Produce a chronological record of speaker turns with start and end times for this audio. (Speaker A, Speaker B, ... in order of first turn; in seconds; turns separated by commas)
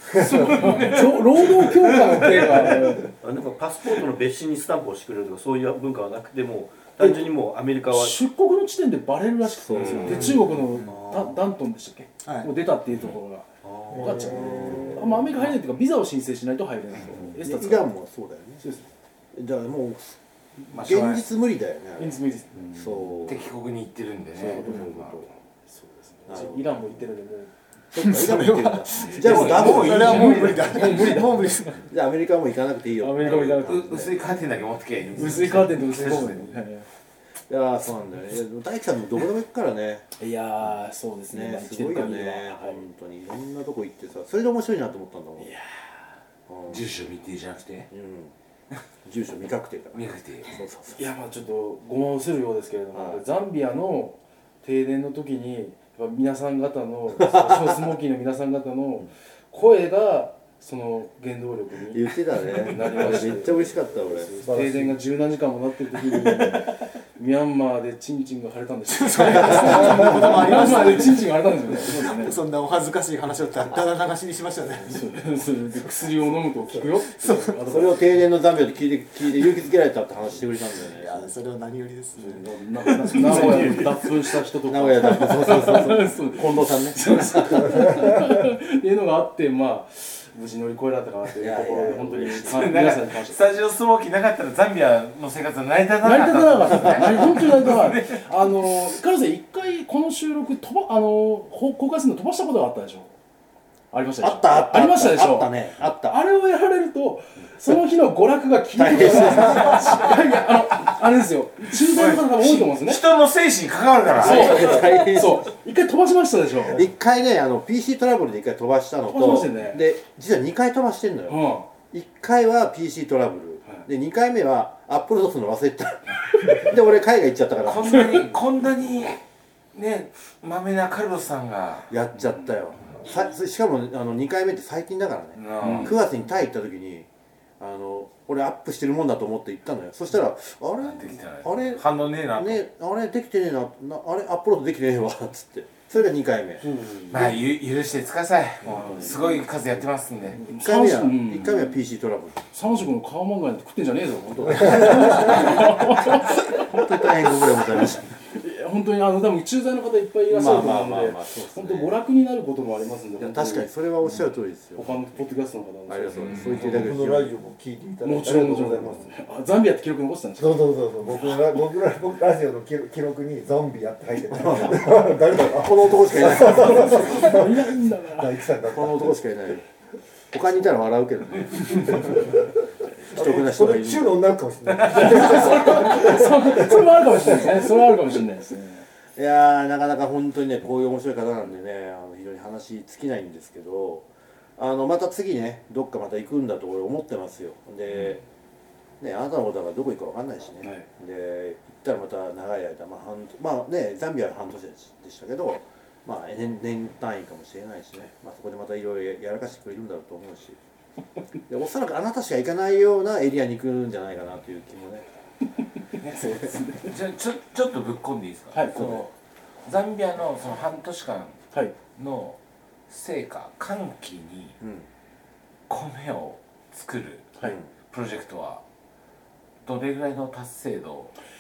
Speaker A: 0.1-2.4, Speaker B: 0.2-3.1, Speaker C: 3.2-8.2, Speaker B: 7.9-17.9, Speaker D: 9.5-10.5, Speaker E: 12.2-12.5, Speaker C: 13.6-14.3, Speaker F: 13.9-14.9, Speaker D: 14.3-15.1, Speaker D: 17.4-18.6, Speaker B: 18.6-18.9, Speaker D: 19.3-20.2, Speaker D: 20.7-22.2, Speaker A: 20.7-21.2, Speaker B: 22.0-22.7, Speaker D: 22.7-23.5, Speaker A: 23.2-25.1, Speaker B: 24.4-27.5, Speaker D: 26.3-26.8, Speaker D: 27.9-30.2, Speaker E: 27.9-31.8, Speaker B: 29.0-31.5, Speaker A: 29.1-31.2, Speaker D: 31.9-34.3, Speaker B: 33.0-34.0, Speaker A: 33.3-36.6, Speaker B: 35.2-36.9, Speaker D: 37.5-40.0, Speaker B: 40.2-42.9, Speaker D: 41.3-45.5, Speaker B: 45.4-45.9, Speaker D: 46.5-46.9, Speaker A: 46.7-47.9, Speaker D: 47.9-48.3, Speaker D: 49.0-51.1, Speaker A: 49.9-50.5, Speaker B: 51.0-72.4, Speaker D: 52.9-53.2, Speaker D: 57.2-57.8, Speaker D: 61.9-64.3, Speaker F: 64.5-65.0, Speaker E: 68.9-75.1, Speaker B: 74.8-78.1, Speaker E: 77.2-77.6, Speaker D: 77.7-81.3, Speaker E: 80.8-82.4, Speaker B: 82.1-93.4, Speaker A: 83.1-83.8, Speaker D: 84.7-87.9, Speaker D: 91.3-92.8, Speaker A: 92.3-98.3, Speaker B: 96.0-103.1, Speaker B: 103.9-113.0, Speaker D: 104.2-106.2, Speaker D: 108.8-110.2, Speaker A: 111.9-114.8, Speaker D: 114.1-115.5, Speaker B: 114.2-116.9, Speaker D: 116.7-128.3, Speaker B: 119.1-119.9, Speaker B: 121.3-121.7, Speaker A: 127.7-129.2, Speaker B: 127.9-128.3, Speaker A: 129.7-131.9, Speaker D: 131.9-137.1, Speaker A: 135.4-136.0, Speaker B: 135.6-135.9, Speaker D: 137.6-146.7, Speaker A: 140.8-142.7, Speaker B: 146.6-147.3, Speaker A: 147.1-150.4, Speaker B: 148.7-149.1, Speaker D: 148.7-149.0, Speaker B: 150.4-151.8, Speaker D: 150.5-152.4, Speaker B: 152.5-156.8, Speaker D: 154.4-158.1, Speaker B: 157.8-163.7, Speaker D: 160.3-162.0, Speaker D: 163.2-165.1, Speaker B: 164.8-166.8, Speaker D: 165.9-167.3, Speaker A: 166.3-166.6, Speaker F: 166.6-169.1, Speaker B: 168.0-170.7, Speaker F: 170.4-179.2, Speaker D: 174.4-177.3, Speaker B: 176.5-178.4, Speaker D: 178.6-179.7, Speaker D: 180.3-182.4, Speaker D: 183.1-184.2, Speaker F: 183.1-187.7, Speaker B: 184.9-188.9, Speaker D: 184.9-185.7, Speaker D: 189.2-194.1, Speaker D: 194.6-198.2, Speaker D: 199.0-210.6, Speaker D: 211.5-215.1, Speaker A: 216.0-219.1, Speaker B: 216.2-216.9, Speaker B: 218.5-219.1, Speaker D: 218.7-219.1, Speaker A: 219.6-222.4, Speaker A: 222.9-224.6, Speaker D: 224.6-224.9, Speaker A: 225.7-227.3, Speaker D: 227.4-227.7, Speaker A: 227.9-228.6, Speaker A: 229.7-231.1